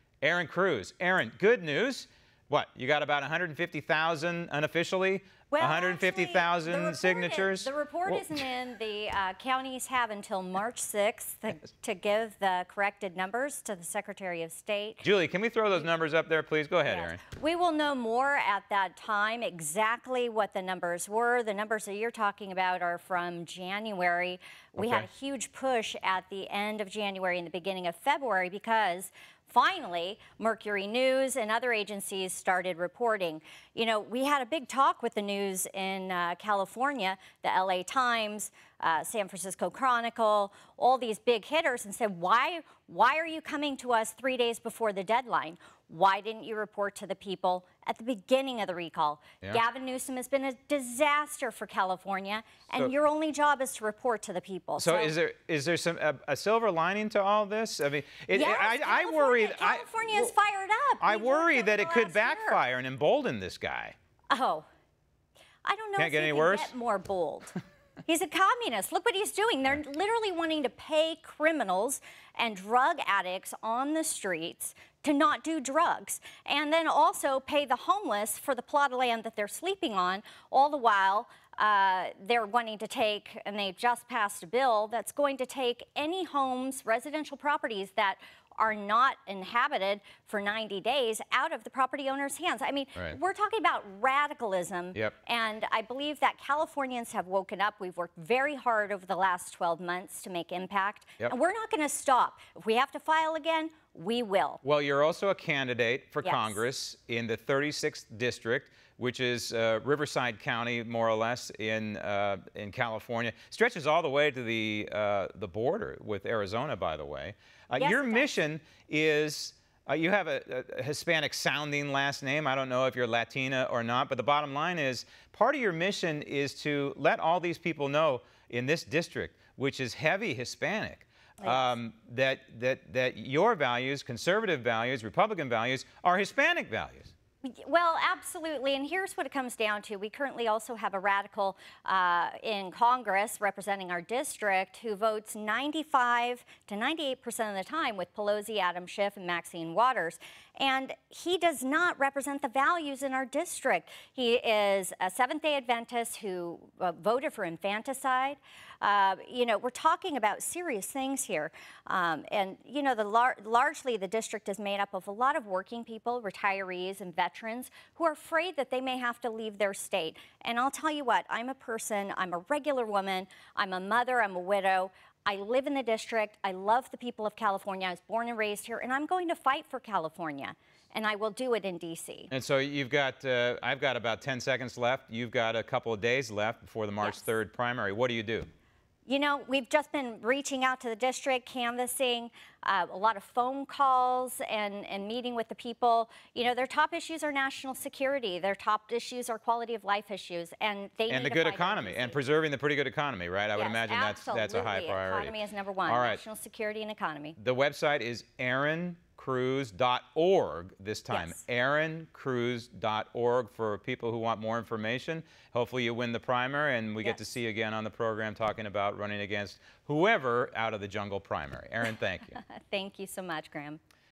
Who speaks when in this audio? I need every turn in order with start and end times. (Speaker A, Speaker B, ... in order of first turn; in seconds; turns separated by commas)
Speaker A: 0.2-8.4, Speaker B: 5.5-15.1, Speaker A: 15.0-17.2, Speaker B: 16.9-55.1, Speaker A: 24.8-25.1, Speaker A: 54.8-60.3, Speaker B: 58.3-62.6, Speaker A: 61.0-64.0, Speaker B: 64.3-64.7, Speaker B: 65.7-67.5, Speaker A: 66.0-66.7, Speaker B: 68.1-104.6, Speaker A: 104.6-137.1, Speaker B: 106.2-106.6, Speaker B: 117.8-118.4, Speaker B: 131.4-131.7, Speaker B: 137.4-182.3, Speaker A: 182.3-188.5, Speaker B: 189.1-202.2, Speaker A: 201.1-206.2, Speaker B: 203.6-207.4, Speaker A: 207.4-222.4, Speaker B: 211.1-211.4, Speaker B: 222.3-223.8